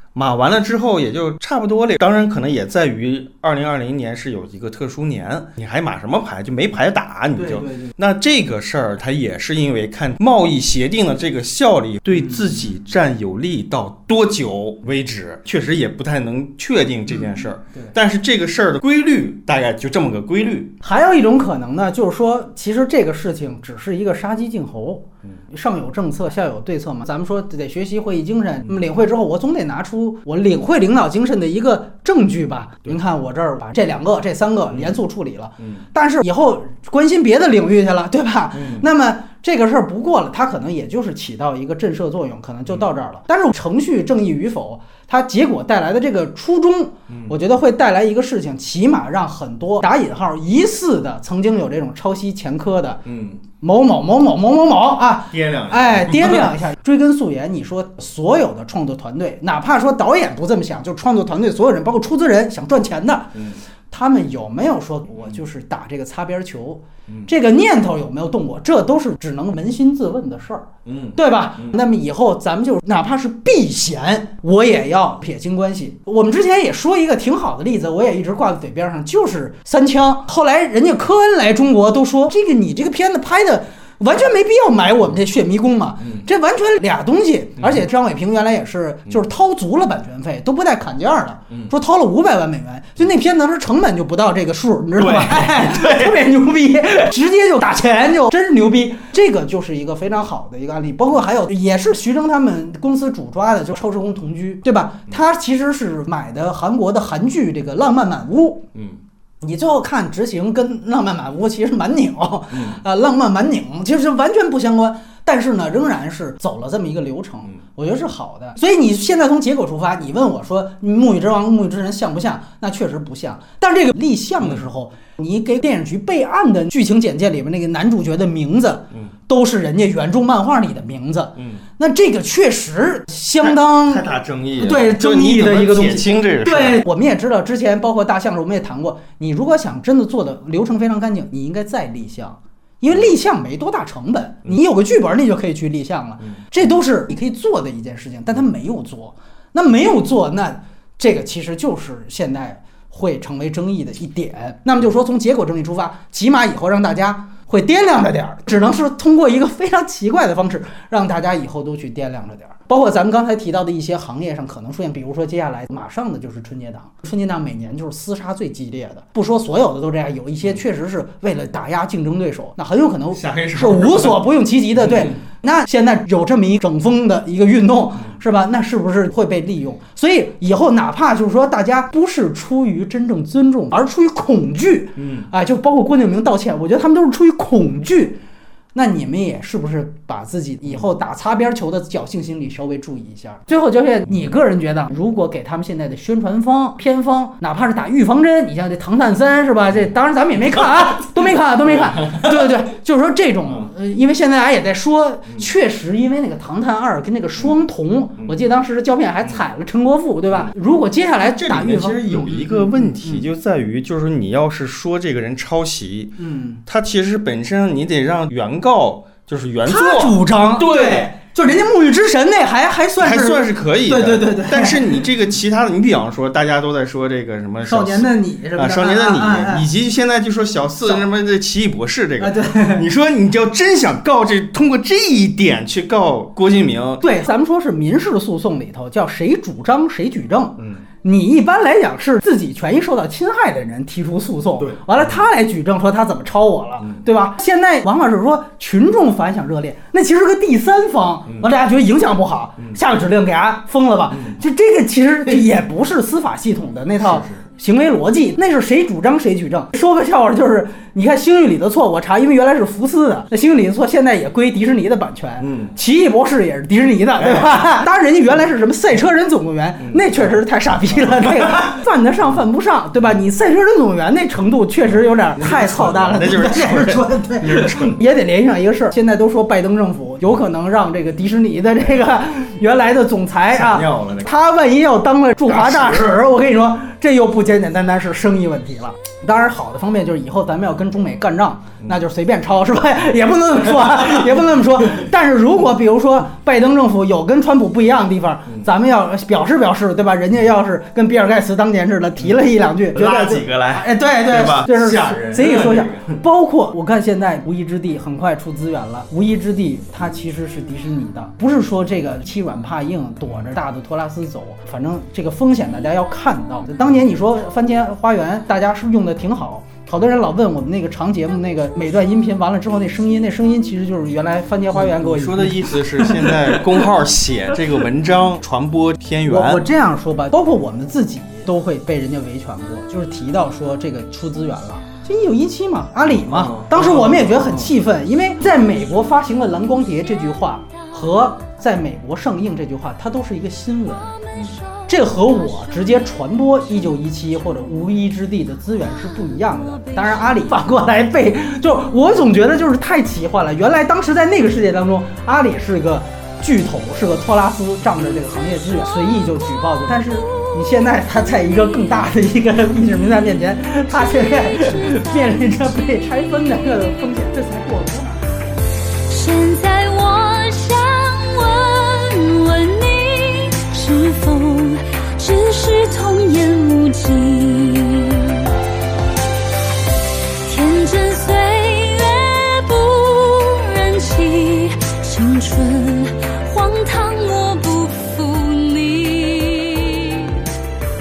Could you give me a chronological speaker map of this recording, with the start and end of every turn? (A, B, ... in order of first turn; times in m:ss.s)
0:00.2-0:20.8 A
0:07.4-0:07.9 B
0:12.2-0:12.5 B
0:17.1-0:17.9 B
0:20.8-0:53.0 B
0:38.5-0:38.9 A
0:53.1-0:53.4 A
0:53.6-1:48.7 B
0:55.3-0:56.6 A
1:10.9-1:11.7 A
1:35.0-1:36.2 A
1:48.7-1:49.0 A
1:49.4-2:14.0 B
1:52.5-1:52.8 A
2:13.4-2:16.8 A
2:14.6-3:08.2 B
2:53.2-2:54.2 A
2:54.9-2:55.1 A
3:05.0-3:05.3 A
3:08.8-3:33.3 B
3:21.7-3:22.5 A
3:31.2-3:41.1 A
3:36.2-3:36.6 B
3:39.6-3:45.1 B
3:43.0-3:57.1 A
3:47.6-3:49.7 B
3:52.2-3:52.8 B
3:57.0-5:26.6 B
4:00.6-4:00.8 A
4:04.6-4:05.0 A
4:17.0-4:17.4 A
4:25.4-4:25.7 A
4:27.2-4:27.6 A
4:29.8-4:30.1 A
4:31.3-4:31.6 A
4:35.4-4:38.0 A
4:43.5-4:44.3 A
4:45.5-4:46.2 A
5:02.9-5:06.2 A
5:24.7-5:29.6 A
5:29.3-5:44.2 B
5:36.3-5:37.7 A
5:44.2-5:46.5 C
5:44.9-6:08.4 B
5:49.3-5:50.6 C
6:04.3-6:05.6 C
6:09.1-6:18.5 C
6:20.4-6:30.5 C